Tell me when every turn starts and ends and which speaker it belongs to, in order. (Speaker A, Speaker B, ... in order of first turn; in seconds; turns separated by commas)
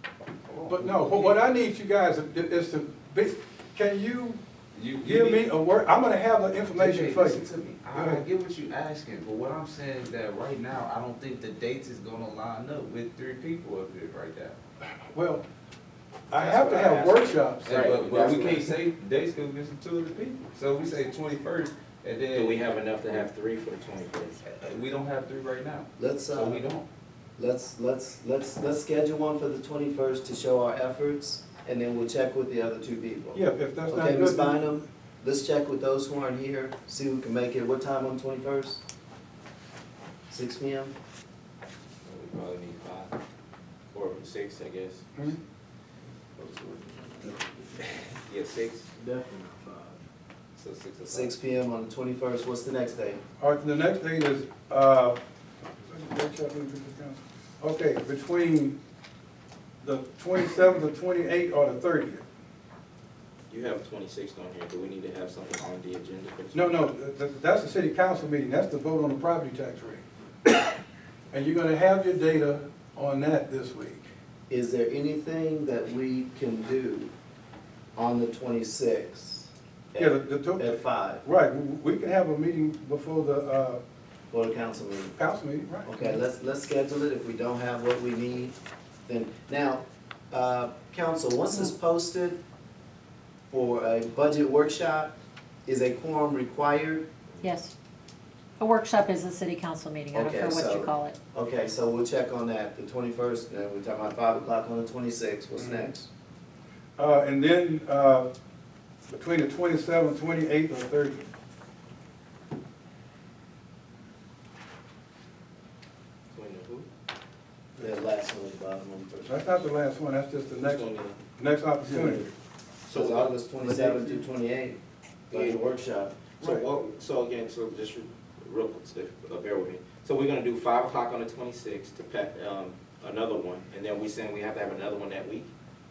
Speaker A: 0.5-1.4, Speaker B: 0.7-4.4, Speaker A: 4.7-5.5, Speaker B: 5.0-7.4, Speaker A: 6.8-14.6, Speaker B: 7.9-8.2, Speaker B: 15.1-15.4, Speaker B: 16.3-17.9, Speaker C: 16.4-18.6, Speaker A: 17.6-23.3, Speaker D: 18.0-18.5, Speaker C: 22.3-24.4, Speaker A: 24.4-26.9, Speaker D: 26.0-26.7, Speaker D: 27.4-38.8, Speaker B: 33.4-34.7, Speaker D: 40.3-40.9, Speaker C: 42.0-43.1, Speaker C: 43.9-45.2, Speaker E: 46.8-47.7, Speaker C: 48.2-48.9, Speaker E: 49.0-50.0, Speaker A: 50.5-51.3, Speaker D: 51.1-53.2, Speaker B: 53.4-55.2, Speaker B: 55.8-58.8, Speaker B: 59.8-62.2, Speaker C: 63.5-66.7, Speaker B: 66.5-70.0, Speaker B: 71.3-74.1, Speaker D: 74.5-77.1, Speaker D: 78.0-81.2, Speaker B: 80.0-83.8, Speaker D: 84.3-85.2, Speaker B: 85.2-86.2, Speaker D: 85.8-88.5, Speaker D: 89.1-92.4, Speaker D: 93.5-95.1, Speaker D: 95.7-97.0, Speaker F: 97.4-97.7, Speaker F: 98.6-101.2, Speaker D: 100.1-106.1, Speaker B: 105.6-105.9, Speaker B: 107.0-108.3, Speaker B: 109.1-111.3, Speaker C: 116.3-116.9, Speaker D: 117.8-119.4, Speaker B: 119.3-120.8, Speaker C: 120.6-121.2, Speaker B: 121.4-122.3, Speaker E: 121.8-122.3, Speaker C: 122.9-123.3, Speaker D: 122.9-124.8, Speaker E: 123.6-124.1, Speaker C: 125.3-125.6, Speaker D: 125.3-126.2, Speaker C: 126.4-135.5